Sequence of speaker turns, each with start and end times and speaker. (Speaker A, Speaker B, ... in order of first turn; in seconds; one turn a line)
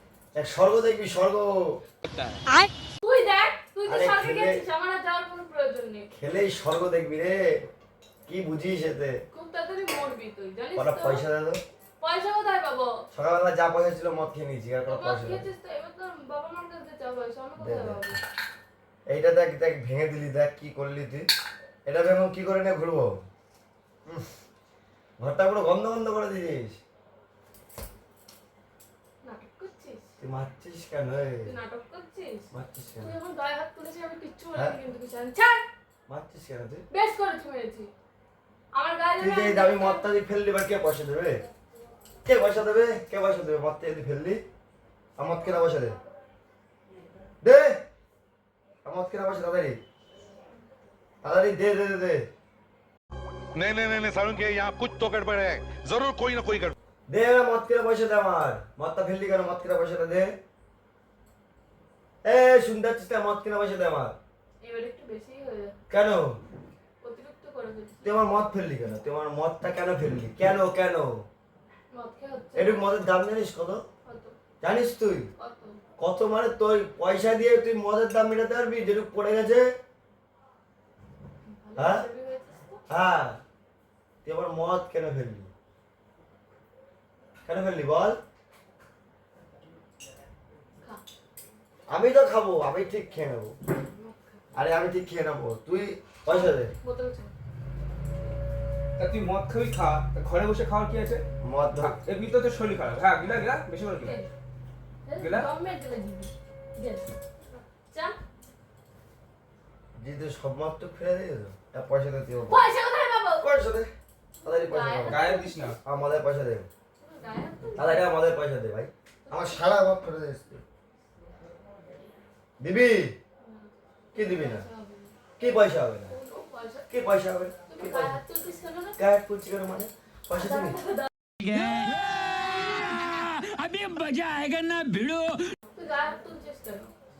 Speaker A: 0.3-1.8
Speaker B: 3.0-6.1
Speaker A: 3.9-4.6
Speaker A: 6.1-7.4
Speaker A: 8.3-9.2
Speaker B: 9.3-11.2
Speaker A: 10.8-11.6
Speaker B: 12.0-12.9
Speaker A: 13.1-15.4
Speaker B: 14.9-18.2
Speaker A: 17.6-18.2
Speaker A: 19.1-21.3
Speaker A: 21.9-23.2
Speaker A: 25.2-26.8
Speaker B: 29.2-30.1
Speaker A: 30.2-31.5
Speaker B: 31.4-32.5
Speaker A: 32.5-33.1
Speaker B: 33.0-35.6
Speaker A: 36.1-36.8
Speaker B: 36.9-37.9
Speaker B: 38.7-40.1
Speaker A: 39.2-41.4
Speaker A: 42.2-44.4
Speaker A: 45.2-46.0
Speaker A: 47.4-47.8
Speaker A: 48.8-49.8
Speaker A: 51.2-52.3
Speaker C: 53.5-56.7
Speaker A: 57.1-60.3
Speaker A: 62.2-64.2
Speaker B: 64.6-65.8
Speaker A: 65.9-66.4
Speaker B: 67.0-68.1
Speaker A: 68.0-71.3
Speaker B: 71.9-72.9
Speaker A: 72.5-73.8
Speaker B: 74.0-74.4
Speaker A: 74.6-75.3
Speaker B: 75.4-75.8
Speaker A: 76.0-79.7
Speaker B: 81.5-82.8
Speaker A: 81.8-82.0
Speaker A: 82.9-83.4
Speaker A: 84.2-85.5
Speaker A: 87.4-88.2
Speaker A: 91.9-93.6
Speaker B: 93.9-94.5
Speaker A: 94.5-96.7
Speaker B: 96.3-97.3
Speaker D: 99.0-101.2
Speaker A: 101.4-102.0
Speaker D: 101.8-104.1
Speaker B: 104.0-104.3
Speaker B: 105.0-107.1
Speaker D: 105.2-105.5
Speaker B: 107.9-108.2
Speaker A: 110.0-112.7
Speaker B: 112.5-113.5
Speaker A: 113.4-113.9
Speaker B: 114.4-115.8
Speaker A: 114.4-115.2
Speaker D: 115.0-115.7
Speaker A: 115.8-116.7
Speaker B: 117.0-118.1
Speaker A: 117.8-120.6
Speaker B: 119.2-119.8
Speaker A: 122.6-123.2
Speaker B: 123.4-125.2
Speaker A: 124.1-124.7
Speaker A: 125.4-126.2
Speaker B: 126.1-126.9
Speaker A: 126.9-128.2
Speaker B: 127.7-129.0
Speaker A: 129.0-130.8
Speaker B: 130.3-131.1
Speaker E: 131.4-135.5
Speaker B: 135.7-136.9